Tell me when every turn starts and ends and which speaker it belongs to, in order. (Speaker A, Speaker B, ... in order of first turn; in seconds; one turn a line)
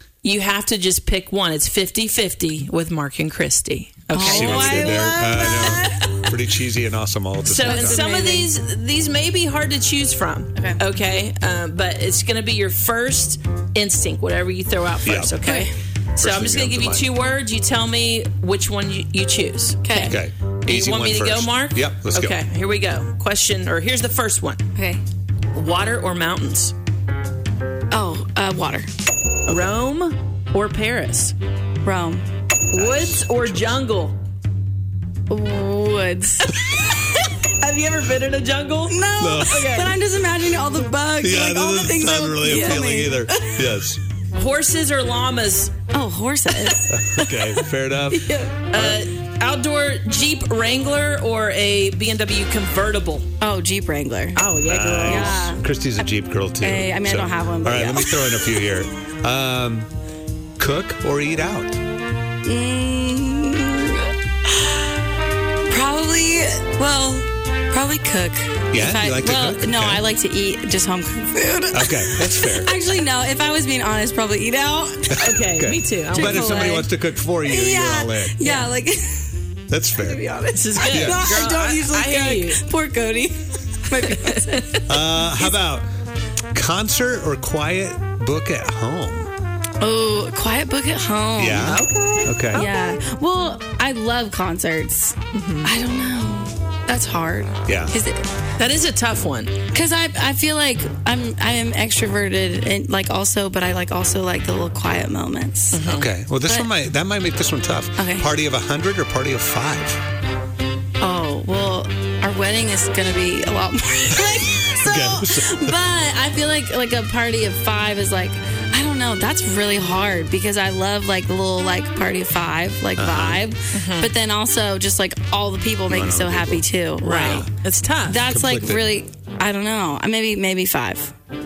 Speaker A: 0.2-5.5
Speaker B: 4.1-6.3
Speaker C: 4.2-8.0
Speaker A: 7.4-24.6
Speaker B: 7.7-8.5
Speaker C: 15.0-15.3
Speaker B: 15.4-15.7
Speaker C: 16.2-17.1
Speaker B: 19.8-20.2
Speaker C: 20.1-22.4
Speaker B: 24.7-25.0
Speaker A: 25.5-26.7
Speaker B: 27.9-28.9
Speaker A: 29.5-31.3
Speaker B: 31.8-32.2
Speaker A: 32.7-34.1
Speaker C: 32.7-33.7
Speaker B: 35.3-36.5
Speaker A: 36.5-39.9
Speaker B: 38.9-43.6
Speaker C: 39.2-39.7
Speaker C: 41.2-44.0
Speaker A: 42.4-42.8
Speaker A: 44.3-45.7
Speaker B: 45.9-47.5
Speaker C: 46.9-49.0
Speaker B: 48.1-48.5
Speaker A: 48.7-53.3
Speaker B: 53.4-54.4
Speaker A: 54.4-55.5
Speaker C: 54.6-59.9
Speaker B: 55.0-55.6
Speaker B: 56.6-58.6
Speaker C: 60.6-61.8
Speaker B: 62.4-64.8
Speaker B: 65.7-75.2
Speaker C: 68.7-70.0
Speaker C: 71.7-72.7
Speaker A: 75.2-76.9
Speaker C: 75.2-78.4
Speaker B: 76.1-76.8
Speaker B: 77.4-79.4
Speaker C: 79.7-80.2
Speaker B: 80.0-84.9
Speaker A: 80.6-82.6
Speaker C: 80.8-81.2
Speaker A: 84.0-84.8
Speaker C: 84.9-85.9
Speaker C: 86.5-89.3
Speaker B: 89.8-91.8
Speaker C: 91.4-92.7
Speaker A: 91.6-92.7
Speaker B: 92.5-98.2
Speaker A: 95.3-95.7
Speaker C: 97.7-98.0
Speaker A: 98.6-99.5
Speaker B: 99.7-105.8
Speaker A: 105.7-106.1
Speaker C: 105.8-110.0
Speaker B: 108.0-108.3
Speaker B: 111.0-127.5
Speaker C: 114.3-115.8
Speaker C: 123.0-123.4
Speaker A: 123.7-124.1
Speaker C: 125.9-127.5
Speaker A: 127.0-128.2
Speaker B: 128.1-131.1
Speaker C: 128.2-128.8